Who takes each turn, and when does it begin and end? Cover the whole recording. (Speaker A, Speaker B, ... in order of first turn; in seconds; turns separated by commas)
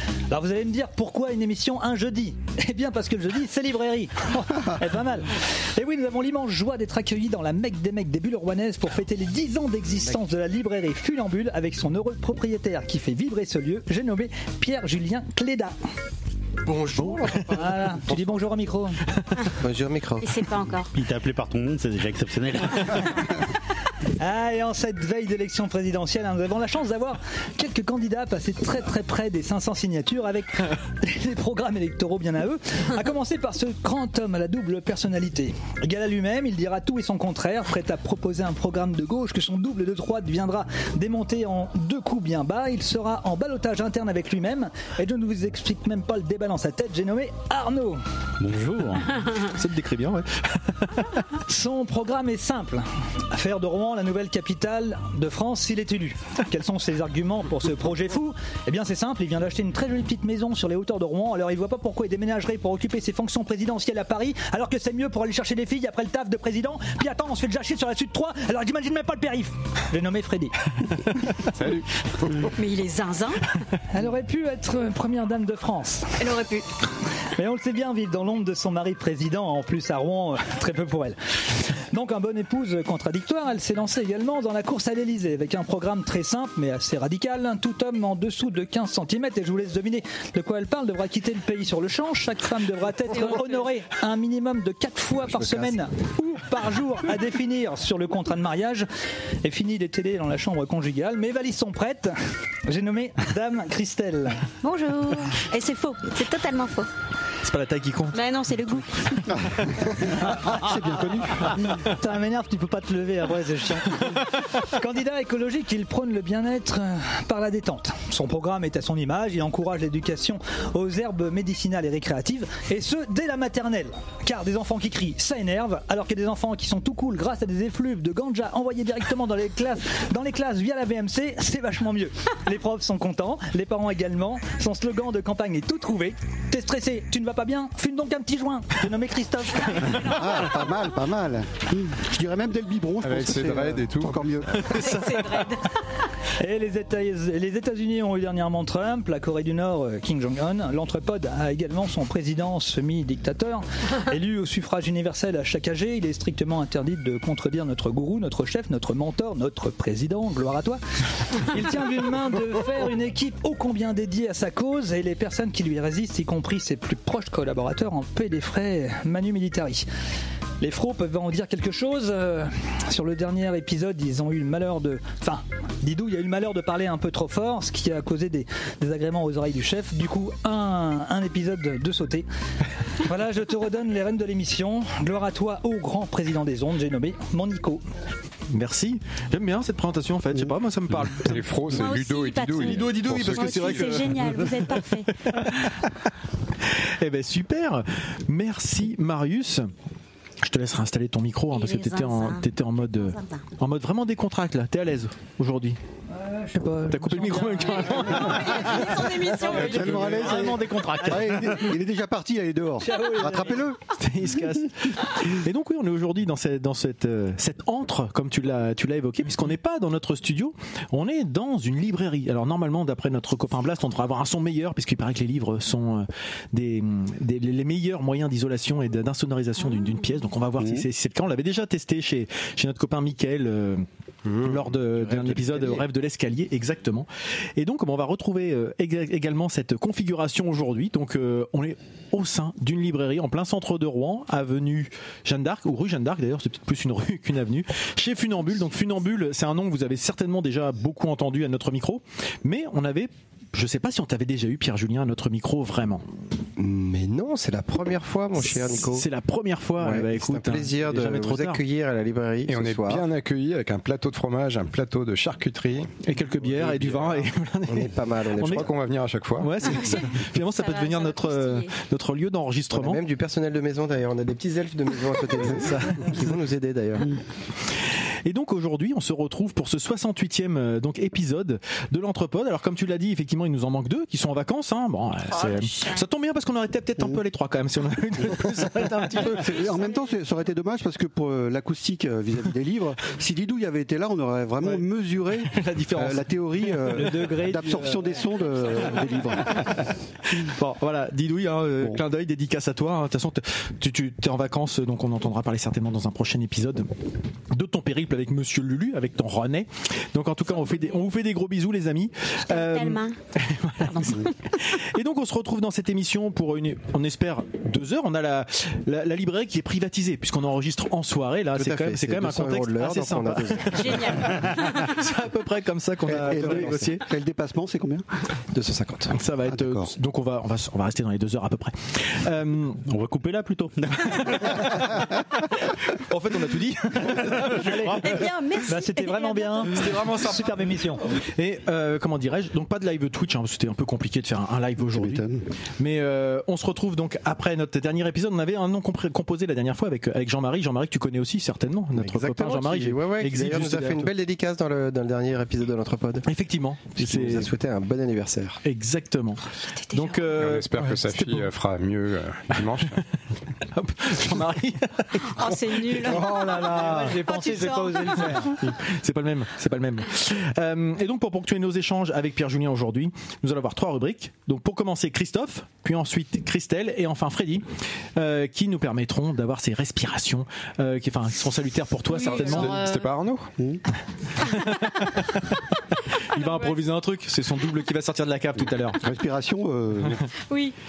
Speaker A: 0.3-15.8, Speaker B: 16.7-18.1, Speaker C: 17.0-17.5, Speaker A: 17.5-19.0, Speaker B: 19.6-20.3, Speaker D: 20.2-20.9, Speaker E: 20.9-23.2, Speaker A: 24.2-48.0, Speaker E: 48.4-49.1, Speaker C: 49.4-51.2, Speaker A: 51.5-70.5, Speaker F: 71.4-72.5, Speaker D: 72.5-73.5, Speaker A: 73.9-76.2, Speaker D: 76.2-76.7, Speaker A: 77.4-98.9, Speaker B: 95.4-95.7, Speaker A: 99.4-102.1, Speaker A: 102.7-104.5, Speaker D: 104.6-106.9, Speaker C: 107.4-108.2, Speaker D: 108.1-109.4, Speaker C: 108.8-109.8, Speaker G: 110.4-111.5, Speaker A: 111.5-140.1, Speaker G: 140.0-144.8, Speaker F: 143.0-144.2, Speaker C: 144.6-145.5, Speaker D: 144.7-145.7, Speaker A: 146.4-160.8, Speaker A: 161.3-169.9, Speaker A: 170.6-182.3, Speaker A: 183.0-187.8, Speaker C: 188.5-191.8, Speaker F: 191.2-194.1, Speaker D: 191.7-195.1, Speaker C: 192.6-196.0, Speaker C: 196.6-199.7, Speaker C: 200.4-205.8, Speaker D: 201.5-202.4, Speaker D: 203.1-203.4, Speaker A: 206.1-209.1, Speaker C: 206.9-210.2, Speaker D: 207.8-210.4, Speaker F: 209.3-210.7, Speaker G: 209.6-213.8, Speaker A: 209.9-211.6, Speaker A: 212.8-213.7, Speaker C: 214.0-233.9, Speaker G: 230.6-230.9, Speaker B: 234.2-235.8, Speaker C: 234.4-256.0, Speaker B: 256.6-259.1, Speaker C: 258.4-261.6, Speaker B: 259.8-263.1, Speaker F: 262.5-265.9, Speaker C: 266.0-268.7, Speaker F: 266.5-267.1, Speaker B: 267.7-268.7, Speaker F: 268.5-269.5, Speaker C: 269.4-273.0, Speaker D: 269.8-271.7, Speaker B: 272.7-277.1, Speaker C: 278.2-289.5, Speaker D: 285.4-286.0, Speaker G: 289.1-299.8, Speaker C: 295.4-297.1, Speaker A: 296.8-298.2, Speaker C: 299.6-306.9, Speaker C: 307.5-327.1, Speaker D: 312.5-313.2, Speaker D: 313.8-314.3, Speaker B: 321.6-324.2, Speaker D: 323.7-324.9, Speaker G: 326.1-328.1, Speaker B: 326.4-326.7, Speaker B: 328.5-329.2, Speaker C: 329.1-332.8, Speaker G: 329.5-329.9, Speaker E: 332.9-334.9, Speaker C: 335.9-338.2, Speaker A: 337.5-338.1, Speaker D: 338.0-339.7, Speaker A: 338.7-341.0, Speaker C: 339.7-340.6, Speaker C: 341.4-345.2, Speaker G: 344.8-345.5, Speaker C: 345.8-354.1, Speaker B: 351.9-356.3, Speaker C: 356.3-357.5, Speaker B: 357.0-358.6, Speaker C: 358.6-361.5, Speaker D: 360.0-360.3, Speaker F: 360.3-363.0, Speaker C: 363.7-367.1, Speaker D: 365.3-368.5, Speaker A: 366.1-368.6, Speaker C: 368.2-382.8, Speaker F: 382.1-383.5, Speaker D: 382.2-383.0, Speaker C: 384.4-385.7, Speaker C: 386.2-389.0, Speaker D: 386.4-386.7, Speaker G: 389.0-390.2, Speaker D: 390.5-390.8